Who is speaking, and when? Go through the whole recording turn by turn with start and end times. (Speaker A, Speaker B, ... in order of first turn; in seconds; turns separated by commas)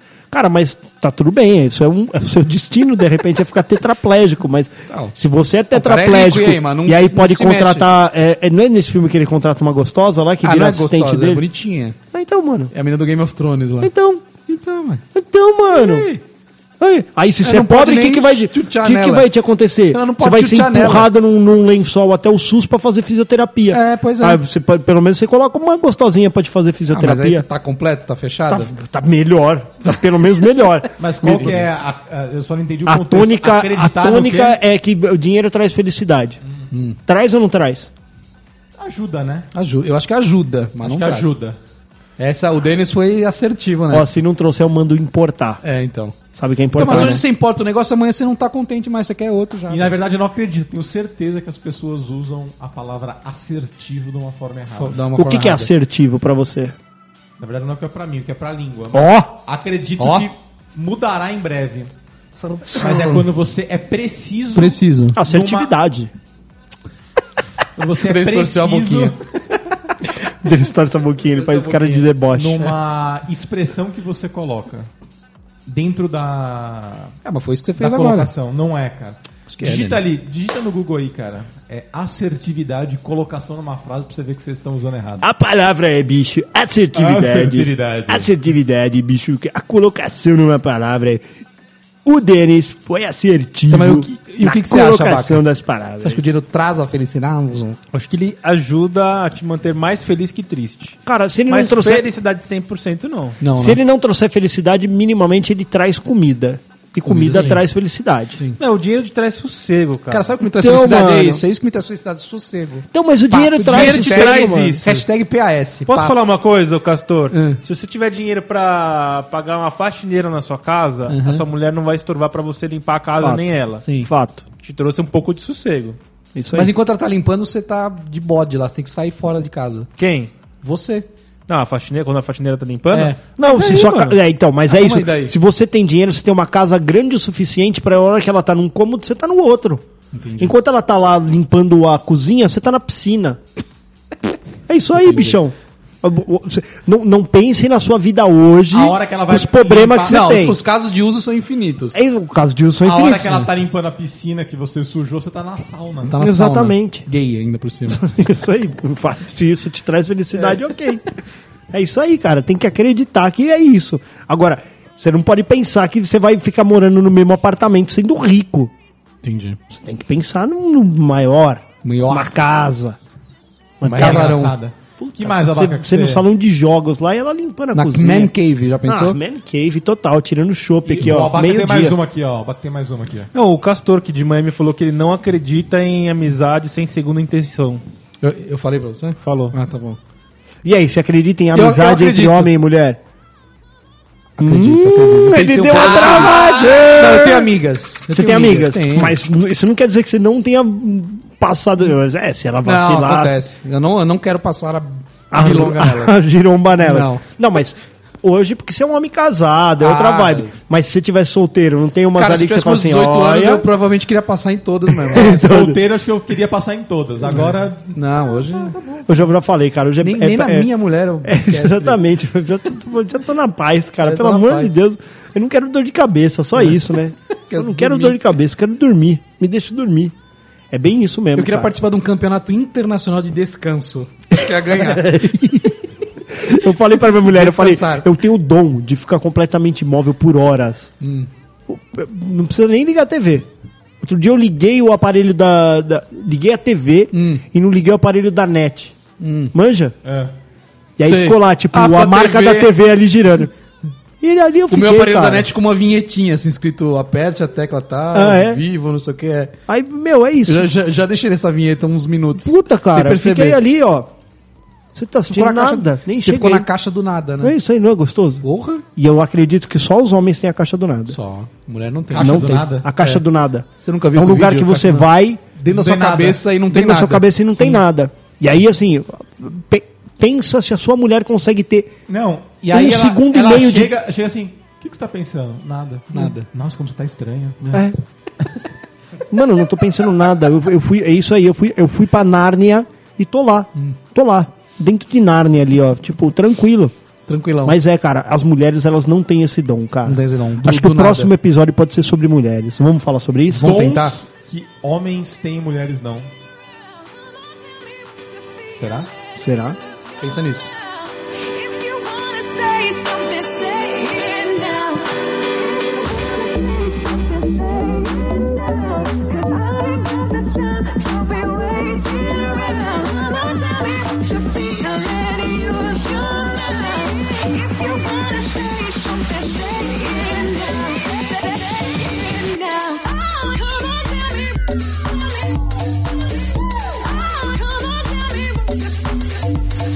Speaker A: 0.3-11.4, Speaker B: 4.9-5.1, Speaker B: 5.7-7.9, Speaker B: 10.4-12.0, Speaker A: 12.1-12.7, Speaker B: 12.7-13.9, Speaker A: 13.8-14.3, Speaker B: 14.5-15.0, Speaker A: 15.1-16.1, Speaker B: 15.7-16.2, Speaker A: 16.8-27.5, Speaker B: 17.4-19.3, Speaker B: 19.9-21.1, Speaker B: 23.7-24.4, Speaker B: 26.9-28.7, Speaker A: 28.5-31.7, Speaker C: 31.0-34.6, Speaker A: 32.9-36.4, Speaker B: 36.7-37.0, Speaker A: 37.1-37.9, Speaker C: 38.8-39.5, Speaker B: 39.5-41.4, Speaker C: 40.8-41.6, Speaker B: 42.2-44.2, Speaker A: 43.9-45.6, Speaker B: 45.6-46.2, Speaker A: 46.4-47.2, Speaker B: 46.7-49.9, Speaker C: 49.7-55.0, Speaker B: 54.8-55.7, Speaker A: 55.1-56.8, Speaker C: 57.4-61.9, Speaker A: 58.9-59.3, Speaker B: 60.0-60.3, Speaker B: 62.4-63.2, Speaker C: 62.7-65.7, Speaker B: 64.5-65.2, Speaker A: 65.2-66.1, Speaker C: 67.8-69.2, Speaker B: 68.0-69.2, Speaker A: 70.1-72.7, Speaker B: 71.4-72.1, Speaker C: 72.3-74.9, Speaker C: 75.7-77.1, Speaker B: 77.2-78.3, Speaker C: 77.8-85.3, Speaker B: 79.5-80.1, Speaker A: 85.2-91.3, Speaker C: 86.9-88.3, Speaker A: 92.0-96.2, Speaker B: 93.7-95.5, Speaker B: 96.0-97.8, Speaker D: 97.9-101.0, Speaker A: 101.0-102.1, Speaker D: 101.5-103.4, Speaker B: 103.4-103.8, Speaker A: 103.6-108.4, Speaker B: 107.1-107.6, Speaker D: 108.6-110.3, Speaker B: 110.1-116.3, Speaker A: 110.5-111.4, Speaker A: 112.9-114.8, Speaker D: 113.7-115.1, Speaker D: 115.9-123.8, Speaker B: 117.3-117.6, Speaker B: 121.1-121.4, Speaker A: 123.2-124.4, Speaker B: 123.8-124.1, Speaker D: 124.6-126.0, Speaker A: 126.3-126.7, Speaker B: 126.5-129.9, Speaker D: 130.0-130.3, Speaker B: 130.6-131.1, Speaker D: 131.5-133.2, Speaker B: 132.9-135.3, Speaker A: 133.4-139.8, Speaker B: 140.1-140.6, Speaker A: 140.4-143.4, Speaker A: 144.7-150.6, Speaker B: 145.0-145.4, Speaker C: 148.7-150.3, Speaker B: 150.1-152.0, Speaker A: 151.9-153.5, Speaker C: 152.8-156.2, Speaker B: 156.1-158.0, Speaker A: 156.2-157.1, Speaker A: 157.9-161.1, Speaker A: 161.7-168.7, Speaker B: 169.2-169.6, Speaker A: 169.7-173.0, Speaker B: 171.8-172.3, Speaker A: 173.8-178.3, Speaker C: 173.8-176.2, Speaker B: 173.9-174.6, Speaker B: 177.7-179.2, Speaker A: 178.8-182.0, Speaker C: 180.8-183.3, Speaker D: 183.3-187.8, Speaker B: 188.2-190.0, Speaker D: 189.2-189.6, Speaker A: 190.7-193.0, Speaker B: 191.6-192.5, Speaker B: 194.4-199.2, Speaker A: 194.4-203.4, Speaker C: 195.8-196.8, Speaker B: 202.6-206.2, Speaker A: 205.3-213.7, Speaker B: 206.8-207.2, Speaker B: 209.8-210.5, Speaker B: 212.2-215.3, Speaker A: 214.9-215.8, Speaker C: 215.1-218.0, Speaker B: 217.9-218.8, Speaker A: 219.0-220.7, Speaker B: 220.0-222.0, Speaker A: 221.2-230.1, Speaker B: 224.0-224.8, Speaker B: 227.5-228.4, Speaker A: 230.7-231.7, Speaker B: 231.3-235.1, Speaker A: 234.3-240.9, Speaker B: 237.2-238.1, Speaker B: 241.0-241.3, Speaker A: 241.7-243.5, Speaker A: 244.0-249.0, Speaker B: 247.1-247.4, Speaker B: 249.2-249.5, Speaker A: 249.5-249.9, Speaker C: 250.0-250.3, Speaker A: 251.0-253.5, Speaker B: 251.1-252.7, Speaker A: 254.2-255.5, Speaker B: 254.7-259.6, Speaker A: 258.1-258.6, Speaker A: 259.7-260.7, Speaker B: 260.5-263.6, Speaker A: 262.4-264.1, Speaker A: 264.9-266.7, Speaker B: 265.3-267.6, Speaker A: 267.4-268.4, Speaker B: 268.4-268.9, Speaker A: 269.0-271.2, Speaker B: 271.1-273.2, Speaker C: 272.1-272.9, Speaker A: 272.2-275.4, Speaker B: 273.8-277.8, Speaker C: 275.7-276.4, Speaker A: 276.7-281.9, Speaker C: 282.1-287.8, Speaker A: 282.7-283.9, Speaker B: 286.1-286.5, Speaker A: 287.7-288.0, Speaker A: 289.3-296.9, Speaker B: 297.3-297.8, Speaker A: 297.6-303.8, Speaker B: 300.1-301.3, Speaker B: 303.5-304.2, Speaker C: 303.5-306.3, Speaker E: 308.1-309.1, Speaker C: 308.8-309.1, Speaker A: 309.4-309.8, Speaker B: 310.2-310.7, Speaker E: 310.2-334.6, Speaker E: 337.0-339.6